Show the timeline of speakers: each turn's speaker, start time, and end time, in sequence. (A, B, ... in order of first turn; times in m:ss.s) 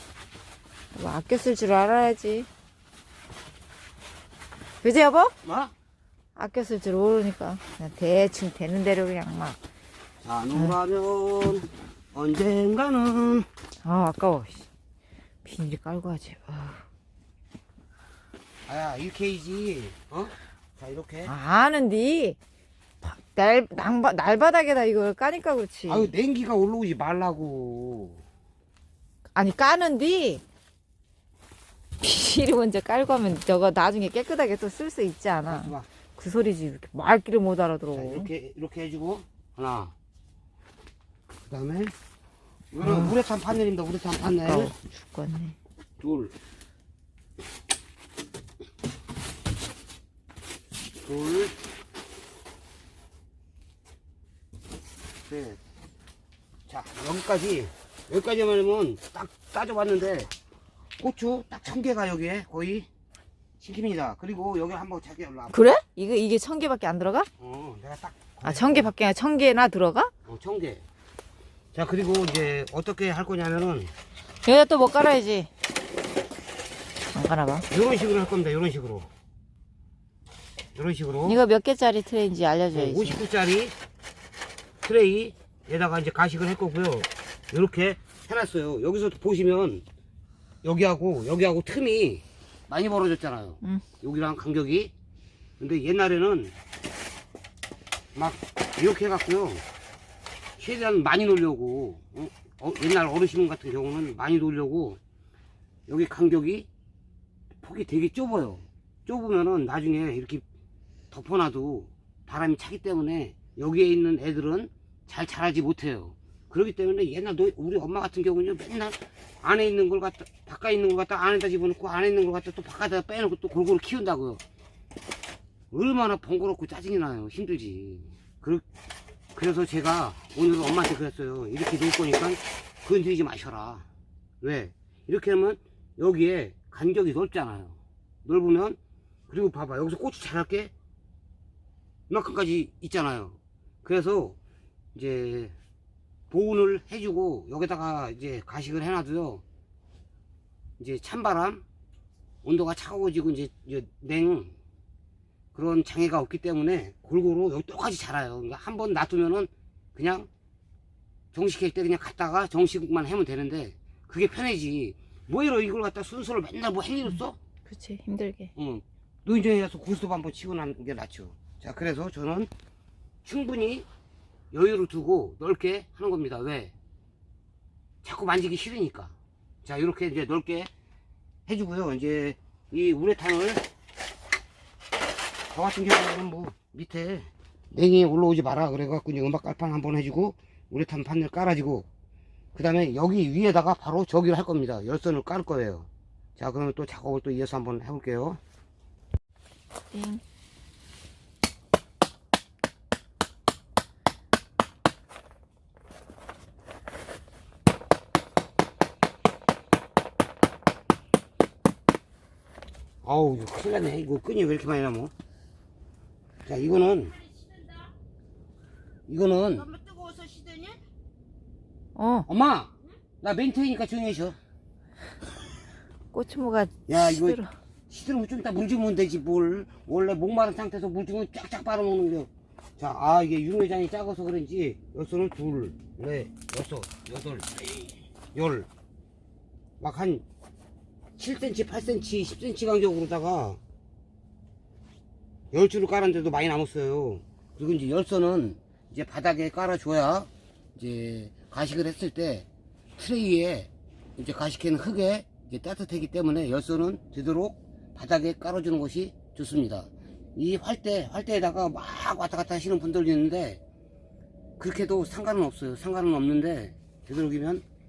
0:00.9-0:02.5 A
0:04.8-0:05.3 A
0:05.4-0:05.7 B
0:06.4-0:09.6 A
0:10.2-0:13.5 B
0:13.8-0:14.7 A
0:15.4-0:16.8 A
0:18.7-0:21.3 B
0:21.3-0:22.4 A
0:23.0-0:26.1 A
0:25.9-0:28.2 B
0:29.4-0:30.4 A
0:32.0-0:38.3 A
0:35.5-0:35.9 B
0:37.9-0:39.9 B
0:41.5-0:41.9 B
0:42.7-0:44.7 B
0:42.8-0:43.2 A
0:44.4-0:45.6 A
0:46.0-0:46.3 B
0:51.0-0:51.6 B
0:55.3-0:55.6 B
0:56.7-1:00.3 B
1:01.0-1:02.9 B
1:03.6-1:05.6 B
1:05.5-1:07.3 A
1:07.4-1:08.9 B
1:08.4-1:10.1 A
1:10.2-1:10.8 B
1:11.7-1:13.9 B
1:14.4-1:15.5 A
1:17.1-1:17.7 A
1:17.7-1:19.1 B
1:20.8-1:21.4 B
1:21.2-1:23.2 A
1:22.7-1:23.7 B
1:24.8-1:29.8 B
1:30.6-1:34.9 B
1:35.6-1:36.6 B
1:38.2-1:39.6 B
1:40.6-1:45.0 B
1:45.9-1:46.7 B
1:47.6-1:50.4 B
1:51.1-2:04.4 B
2:05.7-2:08.7 B
2:09.4-2:13.9 B
2:14.4-2:18.8 B
2:19.3-2:20.7 B
2:22.1-2:24.4 B
2:24.9-2:25.6 B
2:26.3-2:29.4 B
2:30.8-2:31.6 B
2:32.4-2:34.6 B
2:35.5-2:40.3 B
2:41.3-2:47.4 B
2:47.7-2:48.5 A
2:48.6-2:52.5 B
2:53.2-2:53.9 B
2:54.5-2:56.7 B
2:58.0-3:00.7 B
3:01.5-3:03.7 B
3:05.5-3:11.9 B
3:12.5-3:18.4 B
3:19.9-3:20.2 A
3:33.0-3:35.1 B
3:36.5-3:37.2 B
3:37.2-3:37.9 C
3:39.1-3:39.7 B
3:39.6-3:40.8 C
3:42.0-3:42.3 A
3:42.3-3:44.4 B
3:46.1-3:47.5 A
3:46.9-3:58.7 B
3:59.8-4:00.2 B
4:01.2-4:03.6 B
4:05.5-4:23.6 B
4:24.6-4:27.6 B